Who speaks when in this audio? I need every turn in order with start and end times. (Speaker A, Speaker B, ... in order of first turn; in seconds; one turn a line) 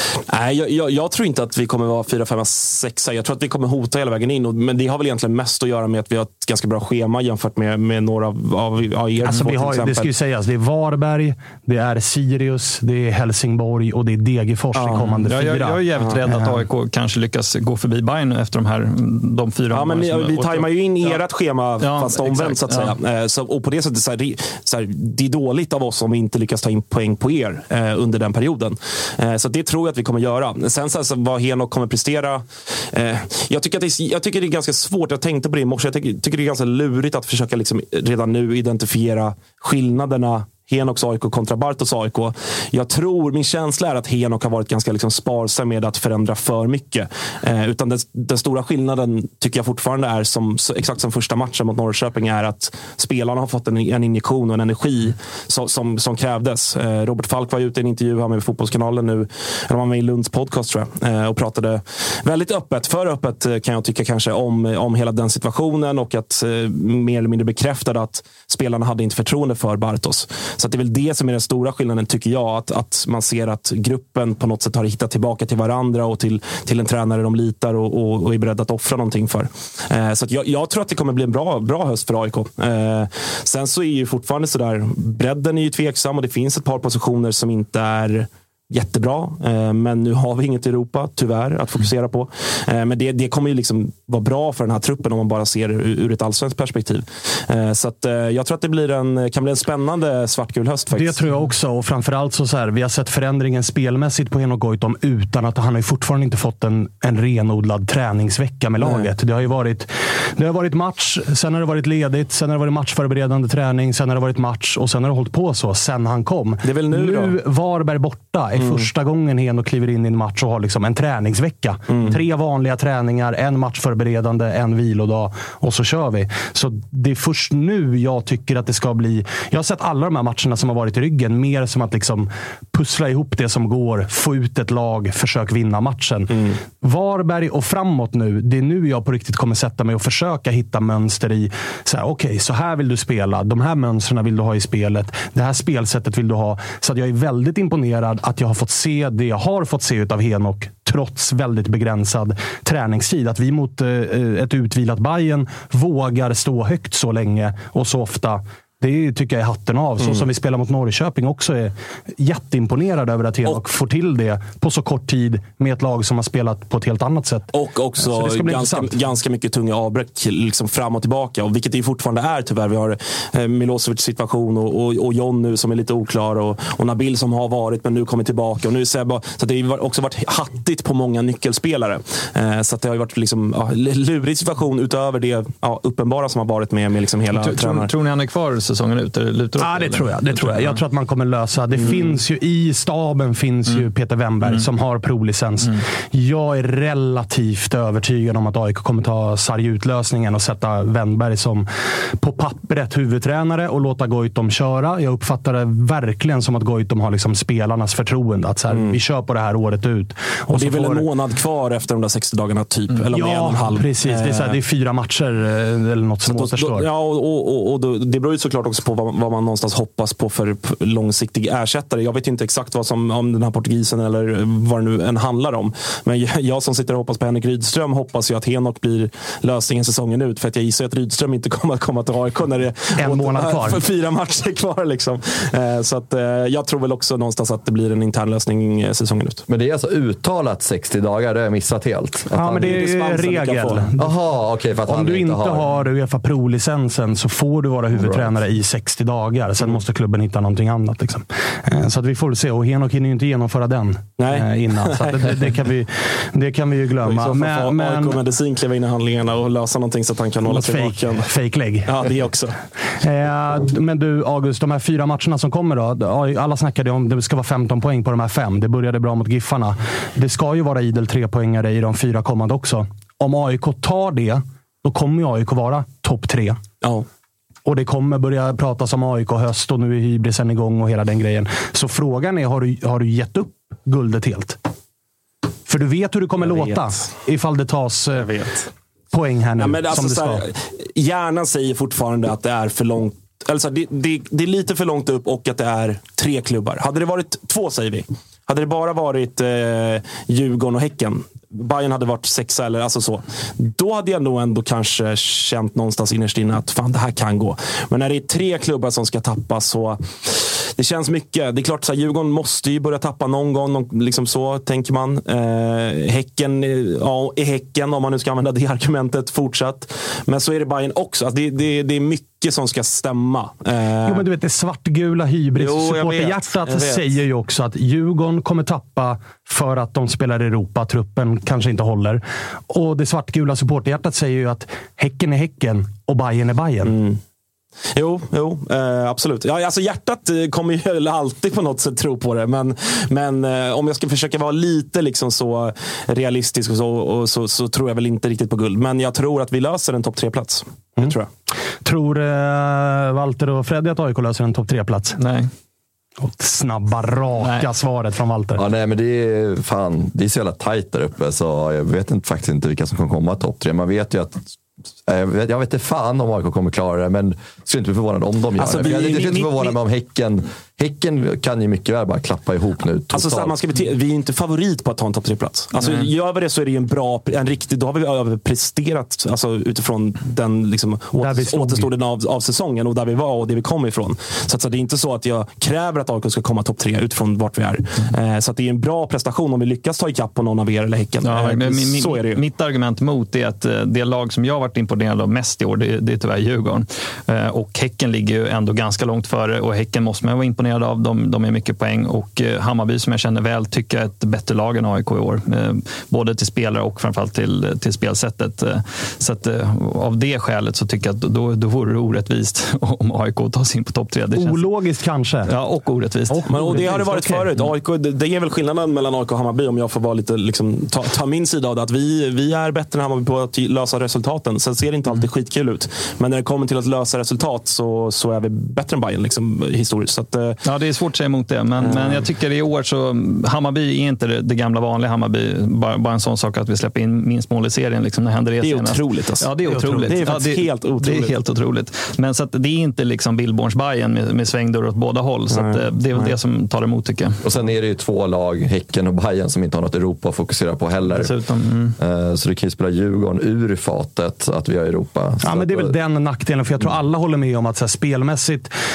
Speaker A: 0.3-10.1
Speaker B: 9.2-16.6
Speaker A: 14.8-15.2
Speaker C: 15.2-21.2
Speaker A: 19.7-101.2
Speaker C: 21.8-22.9
Speaker B: 100.9-168.9
Speaker A: 108.8-109.1
Speaker A: 116.6-117.4
Speaker A: 118.5-118.9
Speaker A: 121.9-122.2
Speaker A: 136.3-136.6
Speaker A: 160.0-160.2
Speaker A: 167.5-187.9
Speaker C: 187.3-190.8
Speaker B: 189.6-201.7
Speaker A: 191.8-192.1
Speaker C: 194.4-194.7
Speaker B: 202.2-211.1
Speaker A: 210.5-214.6
Speaker B: 213.1-216.9
Speaker A: 216.3-239.4
Speaker B: 233.0-233.8
Speaker D: 239.5-242.8
Speaker B: 242.3-244.1
Speaker A: 242.6-243.9
Speaker D: 244.0-245.7
Speaker B: 244.9-258.2
Speaker D: 248.0-248.3
Speaker A: 254.2-255.3
Speaker A: 257.0-261.3
Speaker B: 260.4-261.9
Speaker A: 261.9-262.6
Speaker B: 263.0-276.6
Speaker B: 277.6-284.6
Speaker B: 285.7-288.3
Speaker A: 288.2-288.6
Speaker B: 289.1-290.4
Speaker A: 289.6-324.3
Speaker B: 324.1-336.9
Speaker A: 325.6-327.2
Speaker A: 336.9-337.2
Speaker A: 337.9-351.3
Speaker B: 351.8-355.2
Speaker C: 355.2-355.5
Speaker B: 356.2-358.6
Speaker C: 357.4-357.7
Speaker D: 358.6-364.5
Speaker D: 365.0-373.6
Speaker A: 368.6-369.8
Speaker A: 373.1-392.4
Speaker C: 375.8-376.1
Speaker B: 381.2-381.9
Speaker C: 391.2-414.7
Speaker B: 414.3-415.5
Speaker C: 415.4-417.0
Speaker B: 416.3-417.5
Speaker A: 416.5-430.6
Speaker C: 430.6-447.4
Speaker A: 431.8-432.3
Speaker A: 438.6-441.4
Speaker B: 439.6-440.1
Speaker A: 445.5-446.3
Speaker D: 447.4-451.3
Speaker C: 451.1-451.9
Speaker D: 452.0-455.9
Speaker B: 455.4-458.7